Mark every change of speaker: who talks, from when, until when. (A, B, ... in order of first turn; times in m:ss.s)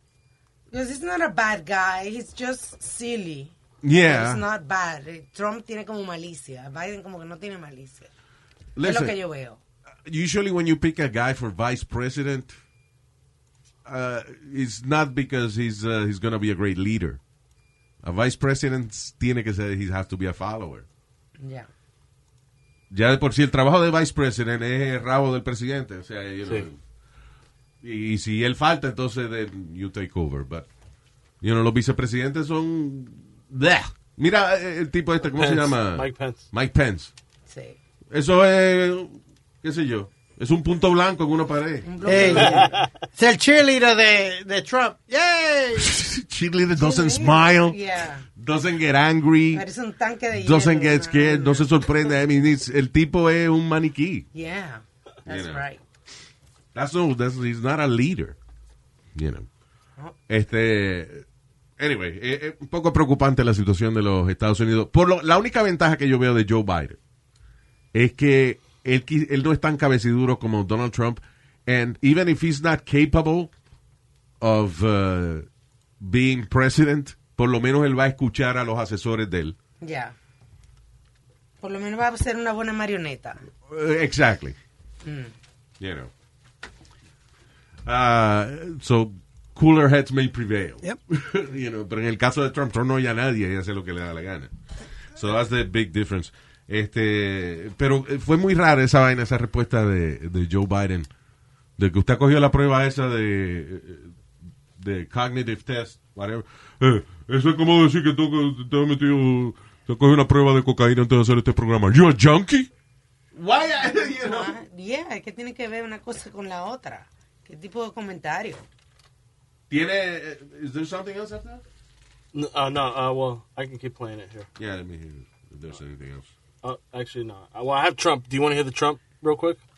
0:00.7-0:08.1 A
0:03.8-0:04.4 B
0:08.8-0:09.2 B
0:08.8-0:09.6 A
0:10.1-0:12.5 B
0:13.9-0:17.2 B
0:18.0-0:20.9 B
0:21.4-0:21.7 A
0:22.9-0:26.8 B
0:27.8-0:30.7 B
0:31.4-0:37.1 B
0:35.4-0:36.4 C
0:37.5-0:37.8 A
0:38.1-0:42.5 B
0:41.8-0:42.7 A
0:42.1-0:45.9 D
0:42.4-0:42.8 C
0:45.8-0:47.8 B
0:46.8-0:48.2 A
0:48.4-0:49.6 B
0:49.5-0:51.7 A
0:50.3-0:54.3 B
0:54.3-0:55.8 A
0:55.3-0:55.6 B
0:56.8-0:58.4 B
0:59.2-0:59.5 B
1:00.3-1:01.2 B
1:01.8-1:07.0 B
1:07.9-1:13.5 B
1:14.4-1:15.5 B
1:16.0-1:19.6 B
1:19.8-1:20.2 A
1:21.6-1:23.4 A
1:23.7-1:24.6 B
1:25.0-1:25.3 A
1:25.8-1:26.1 B
1:27.9-1:34.5 B
1:35.2-1:41.1 B
1:41.8-1:44.1 B
1:44.8-1:52.7 B
1:53.3-1:54.5 B
1:54.0-1:58.6 A
1:59.7-2:01.6 B
2:02.3-2:04.5 C
2:04.6-2:06.3 B
2:06.6-2:09.6 C